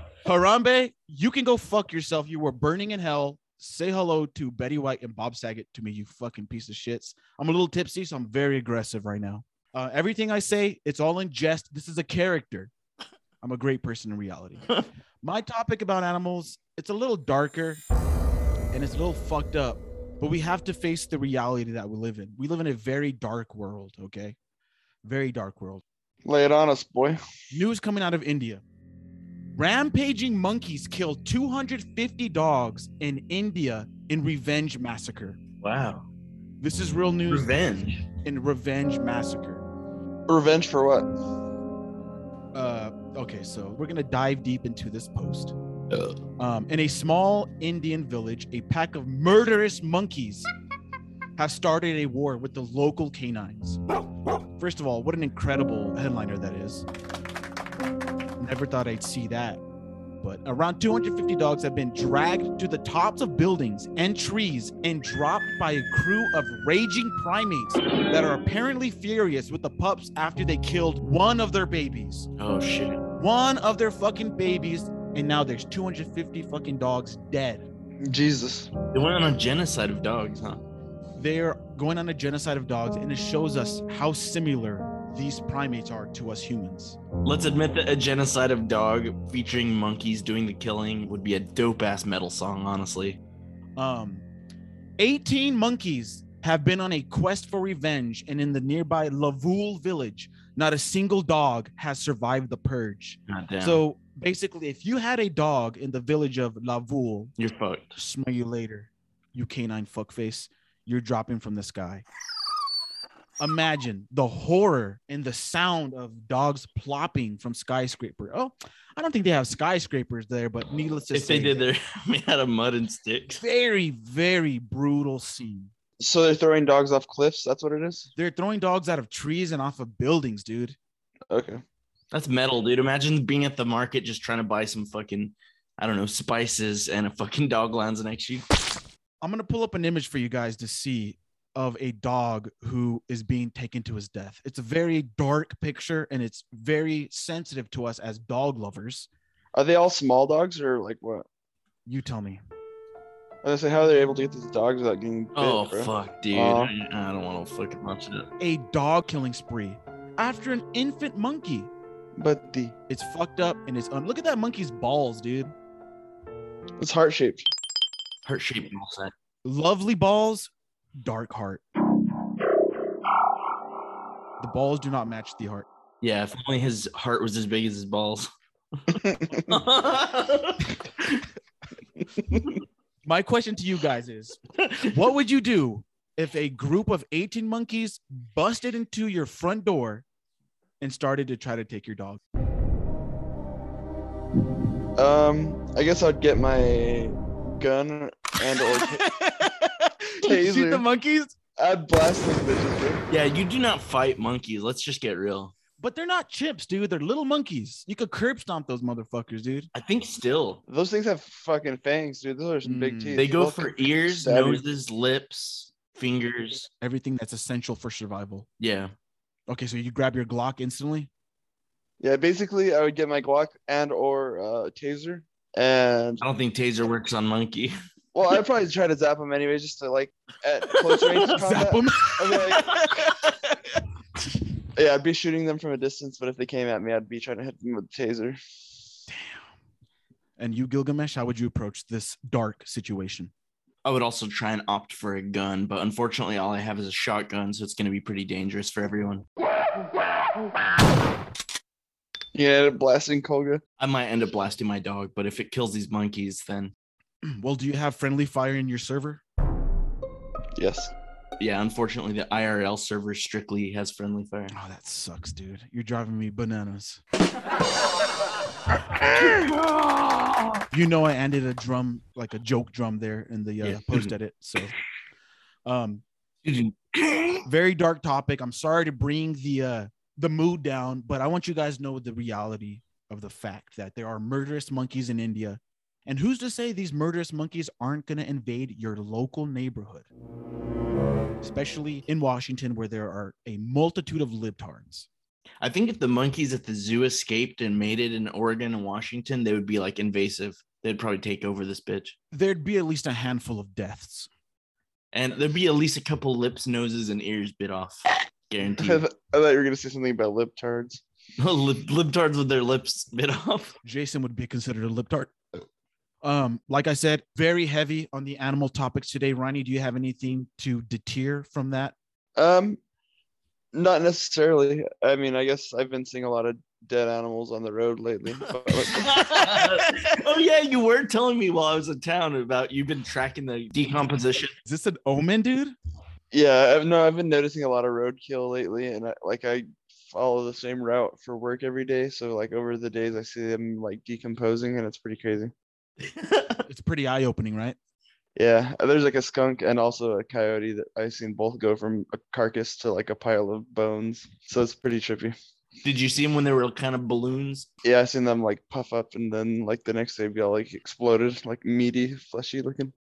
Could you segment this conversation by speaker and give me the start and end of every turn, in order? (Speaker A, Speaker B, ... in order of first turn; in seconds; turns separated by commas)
Speaker A: 0.2-12.7, Speaker A: 13.4-14.7, Speaker A: 15.2-17.8, Speaker A: 18.7-24.4, Speaker A: 25.0-25.8, Speaker B: 26.2-27.2, Speaker A: 27.5-28.6, Speaker A: 29.6-35.4, Speaker C: 35.6-36.1, Speaker A: 36.6-39.6, Speaker C: 37.3-38.0, Speaker B: 40.3-41.1, Speaker A: 42.5-45.5, Speaker C: 45.9-46.2, Speaker A: 46.4-50.5, Speaker A: 51.4-53.8, Speaker A: 54.6-56.9, Speaker A: 58.4-59.6, Speaker A: 60.2-72.3, Speaker C: 72.4-73.0, Speaker A: 73.2-77.7, Speaker B: 78.0-78.7, Speaker C: 78.9-80.6, Speaker A: 81.2-87.0, Speaker C: 87.2-93.2, Speaker A: 93.8-94.2, Speaker A: 95.0-107.3, Speaker C: 103.3-103.8, Speaker C: 107.4-107.9, Speaker A: 108.0-112.0, Speaker A: 113.4-121.6, Speaker C: 121.1-123.4, Speaker A: 123.4-125.7, Speaker B: 126.0-128.1, Speaker A: 128.2-130.8, Speaker B: 131.3-131.6, Speaker C: 132.1-138.4, Speaker A: 139.2-149.1, Speaker B: 149.6-151.3, Speaker A: 151.9-152.4, Speaker B: 153.4-156.7, Speaker C: 155.4-158.3, Speaker A: 158.4-161.7, Speaker B: 162.2-162.8, Speaker A: 162.9-165.5, Speaker B: 166.8-167.4, Speaker C: 168.2-169.1, Speaker A: 169.4-170.5, Speaker A: 171.0-171.6, Speaker A: 174.4-175.7, Speaker C: 176.0-178.3, Speaker C: 178.9-181.2, Speaker B: 179.0-179.5, Speaker A: 183.1-190.0, Speaker A: 190.8-192.2, Speaker B: 195.0-199.0, Speaker A: 198.8-201.3, Speaker B: 200.2-200.8, Speaker B: 201.6-203.1, Speaker C: 203.1-205.5, Speaker A: 205.8-209.7, Speaker C: 209.8-210.6, Speaker B: 210.7-214.6, Speaker A: 212.6-213.2, Speaker C: 213.2-216.7, Speaker A: 216.8-218.5, Speaker C: 218.6-218.9, Speaker A: 219.5-221.1, Speaker B: 222.0-226.2, Speaker C: 226.2-227.7, Speaker B: 228.1-232.7, Speaker C: 231.0-231.3, Speaker A: 231.3-233.5, Speaker B: 234.8-238.4, Speaker A: 239.1-239.5, Speaker A: 240.4-243.3, Speaker C: 243.8-249.2, Speaker B: 252.3-253.6, Speaker C: 253.8-256.7, Speaker A: 257.2-259.2, Speaker B: 260.6-260.9, Speaker C: 261.4-264.5, Speaker A: 264.5-267.0, Speaker C: 269.1-270.0, Speaker A: 270.7-274.7, Speaker C: 273.6-274.1, Speaker A: 275.7-276.0, Speaker C: 276.4-277.4, Speaker A: 277.4-290.1, Speaker A: 291.4-295.1, Speaker C: 295.6-302.2, Speaker A: 302.3-304.3, Speaker C: 305.1-309.0, Speaker B: 308.6-311.0, Speaker C: 311.4-313.8, Speaker A: 313.8-315.4, Speaker A: 316.2-321.9, Speaker B: 322.4-322.8, Speaker B: 323.7-329.1, Speaker C: 328.9-334.5, Speaker A: 334.6-335.7, Speaker B: 336.3-345.5, Speaker C: 346.0-346.6, Speaker A: 346.7-347.8, Speaker B: 348.4-355.4, Speaker C: 355.8-357.7, Speaker B: 357.9-362.9